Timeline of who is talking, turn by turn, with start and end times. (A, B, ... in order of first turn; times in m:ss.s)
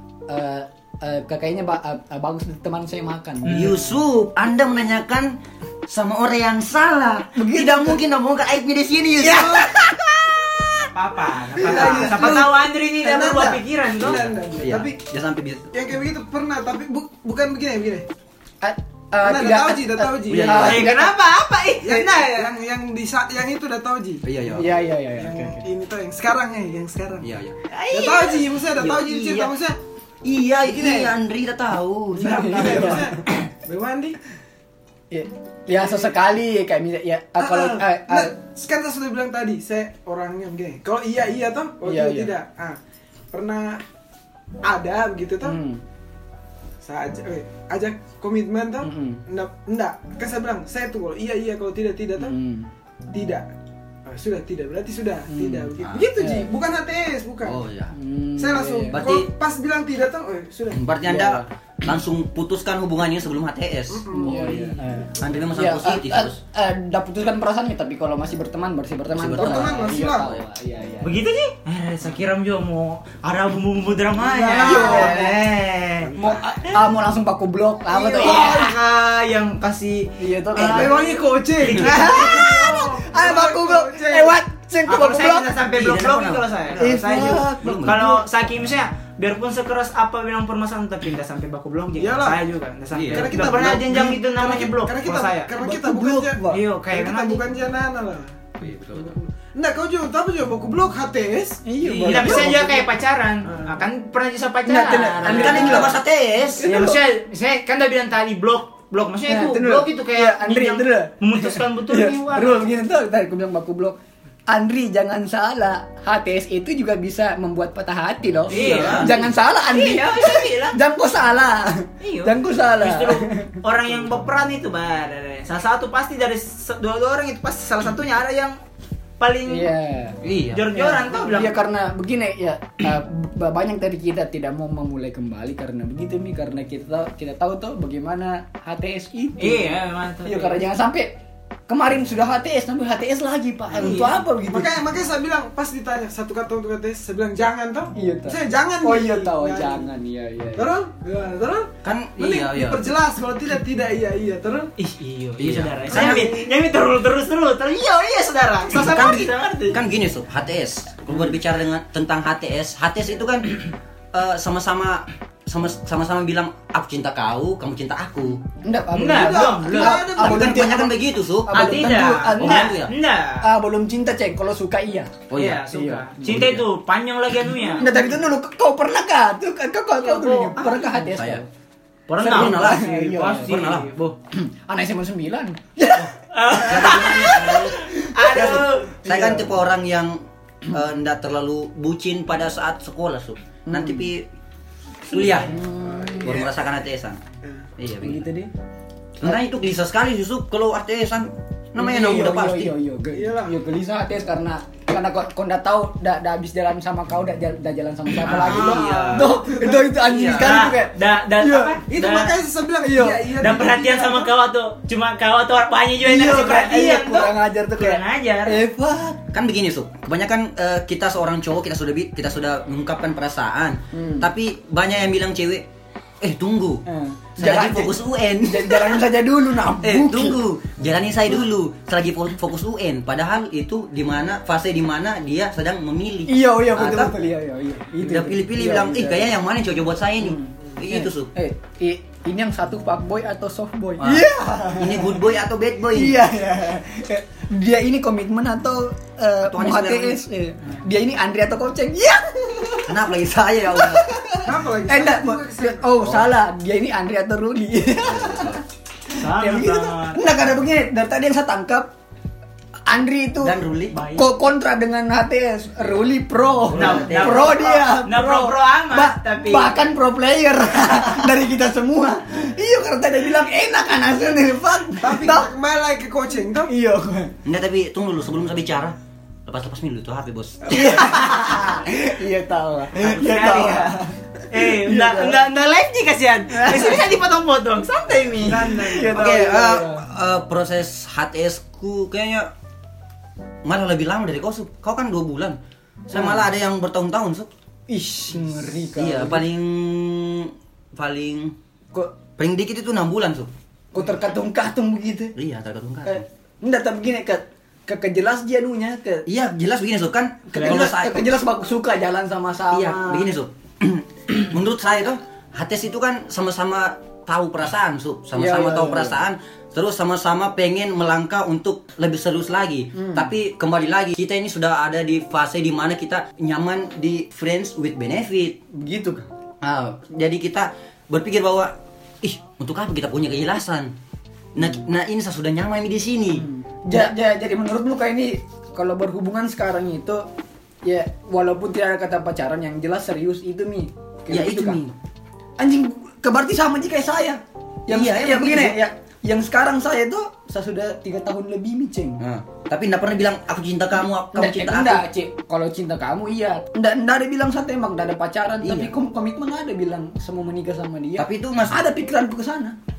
0:00.3-0:03.6 A
0:03.4-0:03.8 B
0:03.5-0:09.7 C
0:07.3-0:08.0 A
0:09.2-0:10.9 A
0:10.9-0:14.2 B
0:11.6-0:14.9 D
0:11.6-0:12.4 A
0:14.0-0:15.7 C
0:15.7-0:18.0 D
0:18.6-0:21.1 A
0:19.2-0:20.7 D
0:20.3-0:20.8 C
0:20.5-0:22.5 B
0:21.8-0:24.2 D
0:24.2-0:24.8 C
0:24.5-0:25.6 A
0:25.1-0:27.3 D
0:27.2-0:29.5 C
0:27.8-0:28.3 B
0:27.9-0:29.8 D
0:30.2-0:33.1 C
0:30.6-0:31.1 D
0:32.2-0:33.2 A
0:32.2-0:34.2 D
0:35.1-0:38.3 A
0:37.4-0:42.8 D
0:41.8-0:42.3 A
0:43.3-0:43.8 D
0:44.6-0:45.6 D
0:45.4-0:45.8 A
0:46.8-0:52.4 D
0:48.8-0:49.2 A
0:52.2-0:52.7 A
0:53.1-0:53.5 D
0:54.0-0:57.6 D
0:55.3-0:56.5 A
0:55.8-0:56.1 C
0:57.4-0:57.9 C
0:57.9-0:59.0 A
0:58.4-1:00.8 D
0:58.9-0:59.3 C
1:00.7-1:04.5 C
1:01.1-1:01.5 A
1:03.9-1:04.8 D
1:04.1-1:11.1 A
1:05.2-1:06.4 C
1:09.2-1:10.3 C
1:09.4-1:10.3 D
1:11.0-1:16.1 B
1:14.2-1:15.2 D
1:14.6-1:15.4 A
1:16.1-1:18.7 A
1:17.9-1:18.7 D
1:18.2-1:22.7 B
1:20.2-1:21.0 A
1:20.6-1:24.4 D
1:21.7-1:25.5 A
1:24.9-1:35.5 B
1:25.7-1:28.1 C
1:26.8-1:28.2 A
1:32.0-1:32.4 D
1:32.9-1:33.4 C
1:33.1-1:38.3 D
1:35.6-1:36.6 A
1:36.5-1:37.4 B
1:38.6-1:39.2 C
1:38.9-1:41.6 D
1:41.6-1:42.8 A
1:41.8-1:45.9 B
1:42.2-1:42.8 D
1:43.4-1:43.8 D
1:44.6-1:46.0 A
1:45.2-1:46.6 C
1:46.6-1:47.0 A
1:46.6-1:52.6 B
1:49.2-1:54.0 A
1:54.5-2:03.6 A
1:58.5-1:59.2 C
1:58.5-2:00.8 B
2:02.0-2:08.6 B
2:09.2-2:09.7 B
2:09.4-2:10.2 A
2:10.2-2:10.7 C
2:10.5-2:11.6 B
2:10.7-2:21.1 A
2:19.4-2:20.6 B
2:21.7-2:24.8 A
2:23.7-2:24.2 B
2:23.9-2:29.9 D
2:28.0-2:30.7 A
2:30.6-2:34.7 D
2:31.8-2:32.9 C
2:34.8-2:39.8 B
2:35.4-2:36.3 C
2:35.9-2:36.5 D
2:38.7-2:48.4 C
2:48.6-2:52.8 A
2:48.9-2:50.0 B
2:49.1-2:50.7 D
2:49.9-2:52.9 C
2:51.5-2:53.5 B
2:53.4-2:56.2 A
2:55.3-2:55.6 C
2:55.3-2:58.1 B
2:56.2-2:56.6 C
2:57.7-3:01.5 A
3:00.0-3:01.0 B
3:01.1-3:01.4 C
3:02.1-3:04.1 B
3:02.2-3:03.6 A
3:02.2-3:03.9 C
3:04.3-3:09.5 A
3:06.0-3:14.3 C
3:06.3-3:09.0 B
3:13.6-3:14.1 A
3:15.1-3:15.6 C
3:15.4-3:16.5 A
3:15.6-3:16.7 D
3:16.2-3:17.2 C
3:17.8-3:18.2 C
3:18.0-3:18.5 A
3:19.2-3:22.7 C
3:21.8-3:31.8 A
3:23.1-3:23.5 D
3:28.2-3:29.2 B
3:28.2-3:29.3 C
3:28.6-3:29.9 D
3:30.0-3:30.6 C
3:30.3-3:32.3 B
3:31.9-3:34.3 D
3:32.8-3:33.6 A
3:33.4-3:38.6 B
3:36.0-3:39.3 A
3:39.3-3:45.6 C
3:43.9-3:44.3 A
3:46.2-3:46.8 C
3:46.8-3:50.4 A
3:47.4-3:49.0 C
3:49.8-3:57.1 C
3:56.3-3:59.3 A
3:58.0-4:01.3 C
4:00.2-4:05.2 A
4:04.0-4:06.2 C
4:05.8-4:13.0 A
4:09.4-4:10.2 C
4:12.9-4:14.1 C
4:13.7-4:21.9 A
4:14.4-4:15.9 D
4:18.0-4:18.6 C
4:19.1-4:20.2 B
4:22.9-4:23.6 A
4:23.4-4:24.0 C
4:23.9-4:24.3 B
4:24.1-4:35.5 A
4:26.7-4:27.6 C
4:26.7-4:29.7 B
4:35.0-4:36.7 D
4:36.7-4:37.3 A
4:37.4-4:38.9 C
4:39.4-4:41.5 C
4:40.7-4:45.4 A
4:43.0-4:44.0 B
4:44.5-4:49.2 B
4:46.5-4:47.1 A
4:48.4-4:49.3 D
4:48.5-4:50.0 A
4:49.1-4:52.5 C
4:53.6-4:55.6 C
4:56.1-4:56.5 A
4:56.1-4:57.5 C
4:57.9-4:59.4 A
4:58.9-5:01.5 C
5:02.4-5:03.5 C
5:03.9-5:05.3 A
5:05.4-5:06.2 C
5:06.0-5:09.2 A
5:09.2-5:11.2 C
5:10.5-5:13.3 A
5:10.5-5:10.8 B
5:12.7-5:28.6 C
5:18.3-5:19.2 A
5:23.0-5:23.3 A
5:28.7-5:29.3 A
5:29.6-5:33.9 C
5:34.5-5:37.1 C
5:36.3-5:40.2 A
5:40.8-5:44.8 A
5:44.3-5:44.9 C
5:45.6-5:52.2 A
5:47.9-5:48.8 C
5:52.2-5:55.0 C
5:54.3-6:02.8 A
5:58.6-5:58.9 C
6:01.2-6:01.8 C